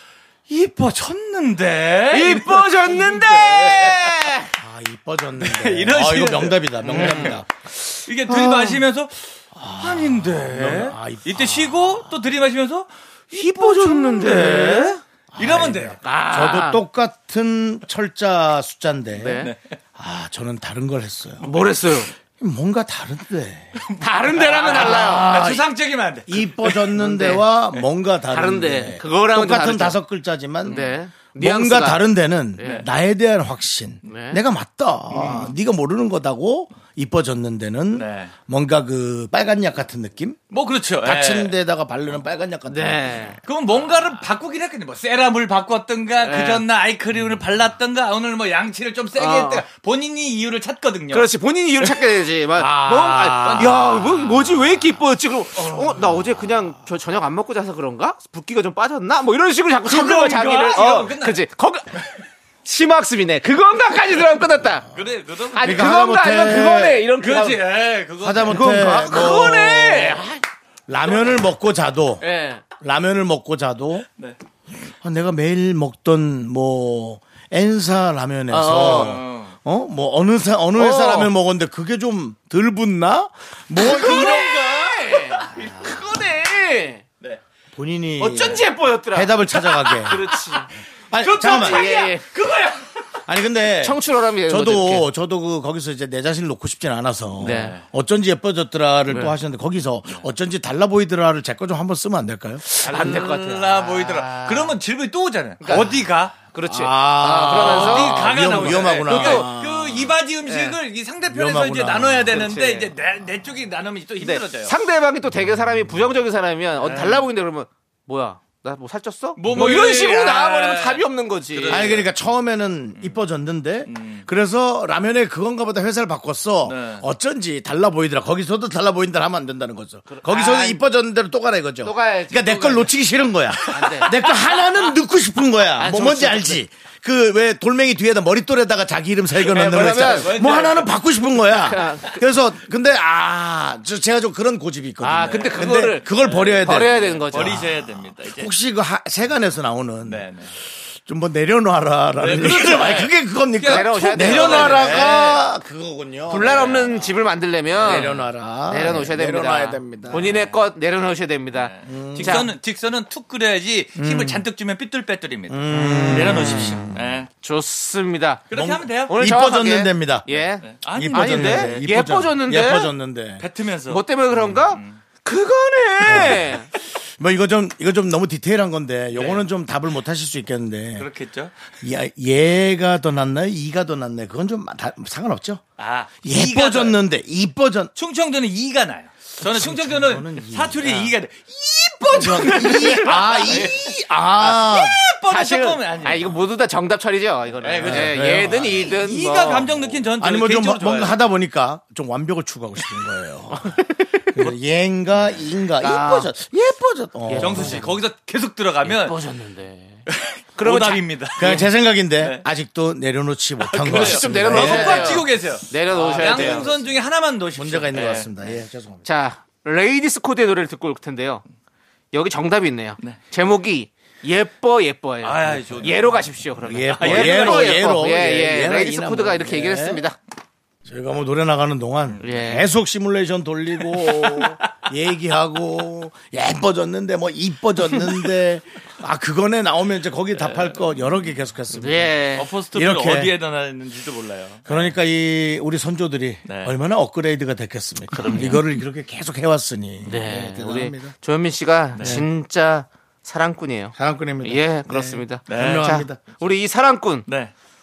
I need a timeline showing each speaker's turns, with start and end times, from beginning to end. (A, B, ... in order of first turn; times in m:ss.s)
0:00.5-0:04.1 A
0:02.1-0:04.5 B
0:04.6-0:07.5 C
0:05.4-0:07.4 A
0:06.8-0:07.4 B
0:08.0-0:09.2 A
0:08.3-0:08.8 C
0:09.6-0:12.1 C
0:09.7-0:16.0 A
0:13.3-0:15.0 B
0:14.3-0:14.8 C
0:15.3-0:19.4 C
0:16.0-0:16.8 B
0:19.1-0:19.5 B
0:20.0-0:21.4 C
0:21.4-0:22.1 B
0:22.4-0:23.8 C
0:24.0-0:25.4 B
0:24.3-0:27.0 A
0:24.7-0:25.7 C
0:26.3-0:30.8 C
0:26.9-0:27.4 B
0:28.3-0:30.0 B
0:30.6-0:32.0 B
0:31.4-0:40.4 C
0:32.6-0:32.8 B
0:32.6-0:32.8 A
0:34.0-0:34.4 B
0:35.1-0:35.5 A
0:35.2-0:35.4 B
0:37.9-0:38.3 A
0:40.5-0:41.5 A
0:41.0-0:43.4 C
0:42.7-0:43.4 B
0:43.4-0:51.3 A
0:46.2-0:46.6 B
0:49.1-0:49.6 B
0:51.1-1:01.9 B
0:52.6-0:53.7 C
0:52.8-0:54.6 A
0:59.8-1:01.4 A
1:02.6-1:04.9 B
1:04.9-1:06.0 A
1:05.5-1:07.6 B
1:05.6-1:07.0 C
1:07.1-1:09.3 A
1:08.2-1:10.2 C
1:08.4-1:10.4 B
1:10.9-1:12.2 C
1:12.2-1:12.6 B
1:12.8-1:14.0 C
1:15.0-1:24.6 C
1:18.5-1:19.2 B
1:18.7-1:19.5 A
1:20.8-1:21.3 B
1:23.8-1:27.0 B
1:24.0-1:26.0 A
1:27.7-1:30.2 C
1:28.2-1:30.7 B
1:31.1-1:32.0 C
1:31.2-1:33.0 A
1:31.4-1:32.2 B
1:33.3-1:42.6 C
1:33.8-1:35.1 B
1:37.4-1:37.8 B
1:37.4-1:37.8 A
1:39.1-1:39.3 B
1:42.6-1:44.8 B
1:42.8-1:46.4 A
1:45.6-1:49.5 B
1:46.6-1:50.1 C
1:47.5-1:54.7 A
1:50.4-1:50.8 B
1:51.3-1:52.4 C
1:52.3-1:52.9 B
1:54.2-2:02.0 B
1:56.8-1:57.2 A
1:59.4-2:02.1 A
2:01.7-2:30.3 C
2:03.9-2:04.2 A
2:06.6-2:07.0 A
2:10.1-2:10.8 B
2:11.8-2:12.9 B
2:13.7-2:14.2 B
2:13.8-2:14.3 A
2:15.8-2:16.6 B
2:19.4-2:20.4 B
2:19.5-2:20.9 A
2:21.6-2:22.2 B
2:25.0-2:27.6 B
2:26.1-2:28.5 A
2:30.0-2:30.5 A
2:31.0-2:36.7 C
2:32.2-2:35.5 A
2:32.6-2:33.1 B
2:33.6-2:35.2 B
2:36.3-2:38.1 B
2:36.4-2:37.2 A
2:37.8-2:38.2 A
2:37.8-2:40.3 C
2:38.7-2:42.5 B
2:41.5-2:47.3 A
2:41.8-2:42.4 C
2:44.0-2:44.4 C
2:45.5-2:47.0 C
2:45.7-2:46.7 B
2:47.4-2:52.9 B
2:48.5-2:49.2 A
2:48.5-2:50.3 C
2:50.6-2:51.9 A
2:50.9-2:53.4 C
2:53.4-2:55.0 A
2:53.9-2:56.7 B
2:56.0-2:56.5 C
2:57.2-3:01.1 C
2:59.2-2:59.4 A
3:01.0-3:01.5 A
3:01.8-3:05.6 C
3:05.8-3:07.0 A
3:06.2-3:07.9 C
3:07.9-3:16.4 A
3:09.4-3:11.1 C
3:12.1-3:15.0 C
3:12.4-3:13.7 B
3:15.3-3:19.7 B
3:17.6-3:18.2 A
3:17.8-3:19.0 C
3:18.9-3:21.2 A
3:20.2-3:23.8 C
3:24.3-3:27.8 C
3:25.8-3:26.3 B
3:27.3-3:27.9 B
3:27.4-3:29.2 A
3:28.8-3:30.0 B
3:30.1-3:32.4 A
3:30.6-3:31.6 B
3:31.4-3:35.2 C
3:33.6-3:38.5 A
3:33.8-3:36.7 B
3:35.9-3:37.0 C
3:37.5-3:39.0 C
3:37.9-3:38.2 B
3:39.0-3:41.4 B
3:42.1-3:50.2 B
3:45.2-3:46.2 A
3:45.5-3:45.8 C
3:46.6-3:50.0 C
3:47.0-3:48.0 A
3:50.8-4:02.2 C
3:52.2-3:52.7 B
3:53.8-3:54.7 A
4:00.4-4:01.1 A
4:01.8-4:02.5 B
4:02.3-4:04.9 A
4:02.7-4:03.3 C
4:04.7-4:11.1 C
4:06.4-4:06.7 A
4:08.1-4:08.7 A
4:08.2-4:08.5 B
4:10.0-4:17.2 B
4:11.9-4:12.2 A
4:12.0-4:12.2 C
4:14.0-4:16.2 C
4:15.5-4:15.9 A
4:17.3-4:17.5 A